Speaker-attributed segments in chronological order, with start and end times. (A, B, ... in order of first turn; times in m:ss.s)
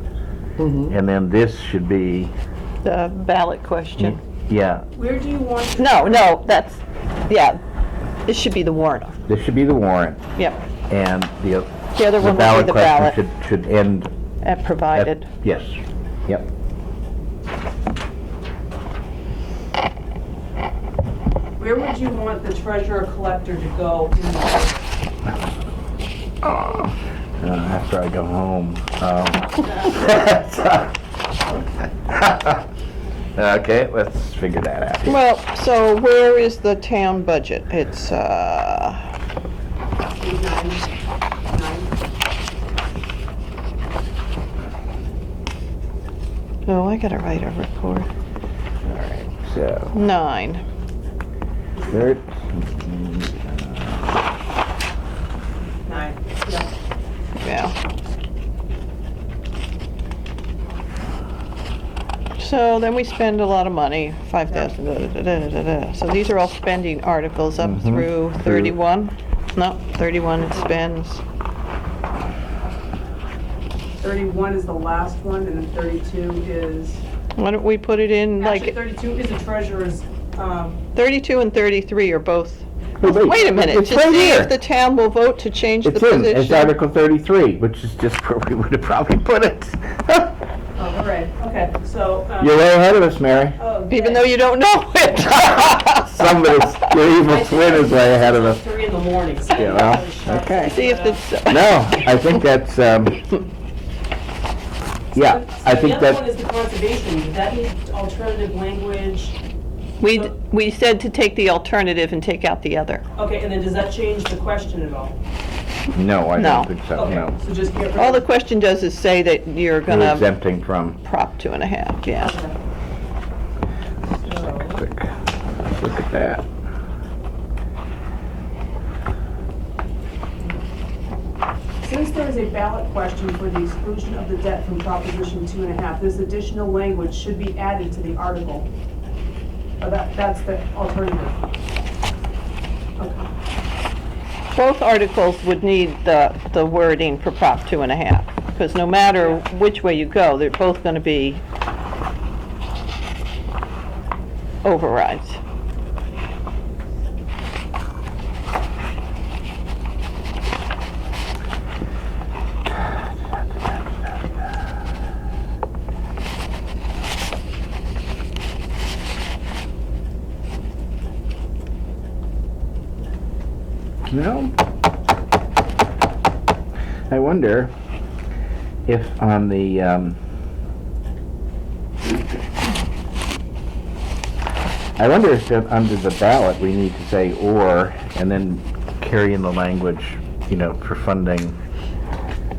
0:00.8-0:02.3 A
0:02.8-0:04.2 B
0:04.0-0:04.9 A
0:04.9-0:06.3 C
0:05.8-0:07.6 B
0:08.3-0:09.2 B
0:09.3-0:10.4 A
0:10.9-0:14.1 A
0:12.0-0:13.2 B
0:14.4-0:15.3 B
0:14.9-0:16.5 A
0:21.6-0:24.9 C
0:26.4-0:30.9 A
0:32.1-0:32.6 A
0:33.4-0:35.2 A
0:35.1-0:39.0 B
0:40.2-0:40.9 C
0:41.5-0:41.9 C
0:46.7-0:48.1 B
0:48.8-0:50.0 A
0:49.9-0:50.6 B
0:51.8-0:52.1 C
0:51.9-0:54.2 A
0:55.9-0:56.7 C
0:57.4-0:57.8 B
1:02.4-1:11.2 B
1:07.6-1:08.7 A
1:10.4-1:10.8 C
1:14.0-1:17.0 C
1:17.4-1:18.8 B
1:18.4-1:20.8 C
1:21.0-1:26.8 B
1:23.0-1:24.6 A
1:25.8-1:30.3 A
1:30.8-1:32.6 C
1:32.4-1:33.6 A
1:33.6-1:34.3 C
1:33.9-1:37.1 B
1:36.0-1:38.6 A
1:37.2-1:41.3 C
1:39.5-1:40.8 A
1:40.6-1:42.4 B
1:41.5-1:43.3 A
1:45.2-1:46.3 A
1:45.2-1:49.4 C
1:50.0-1:53.0 B
1:53.2-1:55.2 C
1:55.9-1:57.4 A
1:56.4-1:56.7 B
1:56.9-1:58.3 C
1:58.0-2:00.4 B
1:59.9-2:01.0 A
2:01.0-2:02.3 B
2:02.1-2:02.6 C
2:04.2-2:04.8 C
2:04.2-2:06.4 A
2:11.8-2:18.7 C
2:19.8-2:21.4 C
2:23.0-2:23.3 C
2:24.6-2:31.4 B
2:29.2-2:29.4 C
2:34.6-2:35.4 B
2:54.1-2:54.5 A
2:57.1-2:57.7 A
2:58.9-3:00.2 A
3:05.0-3:11.6 A